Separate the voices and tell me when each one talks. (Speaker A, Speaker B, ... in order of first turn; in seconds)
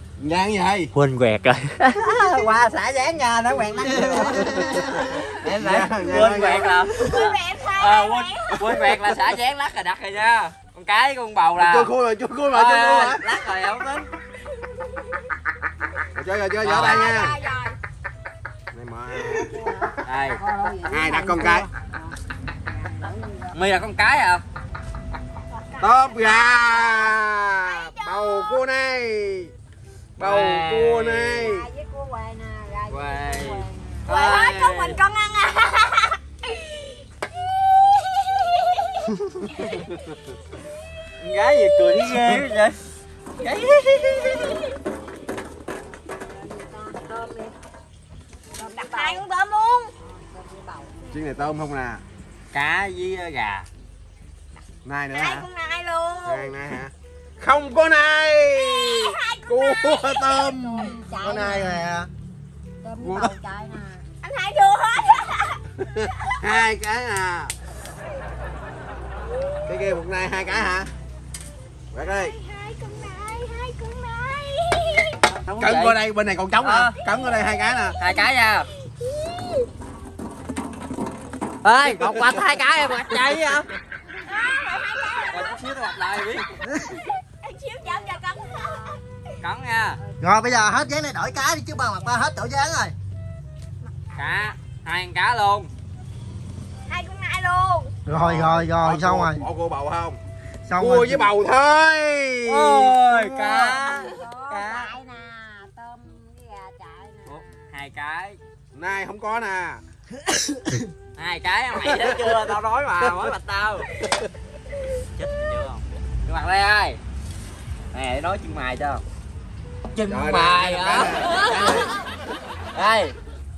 Speaker A: 0.2-0.9, 4.4-7.0, 11.6-13.2, 16.1-17.4, 18.7-19.5, 20.9-21.7, 25.8-29.5, 30.2-31.6, 51.1-52.0, 54.8-55.5, 56.2-61.0, 63.0-63.3, 65.8-67.5, 69.7-70.9, 71.9-72.3, 75.6-78.0, 81.9-83.2, 98.1-100.2, 100.8-102.9, 108.7-109.8, 111.8-112.1, 120.1-121.9
Speaker B: 0.9-11.9, 12.5-14.1, 16.6-17.1, 20.0-20.4, 23.5-24.4, 30.2-31.5, 32.9-35.0, 41.2-42.8, 43.4-44.6, 52.5-53.7, 75.3-76.0, 76.6-77.0, 78.0-78.7, 81.6-83.7, 85.3-86.5, 89.4-90.0, 94.2-95.7, 102.5-105.0, 107.2-108.4, 111.2-113.9, 115.0-117.0, 117.9-119.0, 119.9-121.4, 122.7-123.2
Speaker C: 3.9-5.0, 61.2-62.1, 90.2-92.9, 98.0-99.4, 100.7-101.3
Speaker D: 6.8-8.6, 16.8-17.8, 25.3-28.6, 34.0-37.0, 37.7-39.8, 48.6-49.9, 55.1-56.5, 58.5-60.9, 64.2-66.7, 69.2-70.0, 72.0-75.2, 77.0-78.3, 78.8-79.7, 84.2-85.6, 87.2-89.3, 93.8-94.5, 96.9-98.0, 121.3-122.0
Speaker E: 19.2-23.6, 31.4-34.1, 46.3-47.5, 48.5-49.2, 50.0-51.0, 60.5-61.9, 62.8-64.1, 87.8-89.0, 90.0-90.4, 91.9-92.3, 103.1-107.7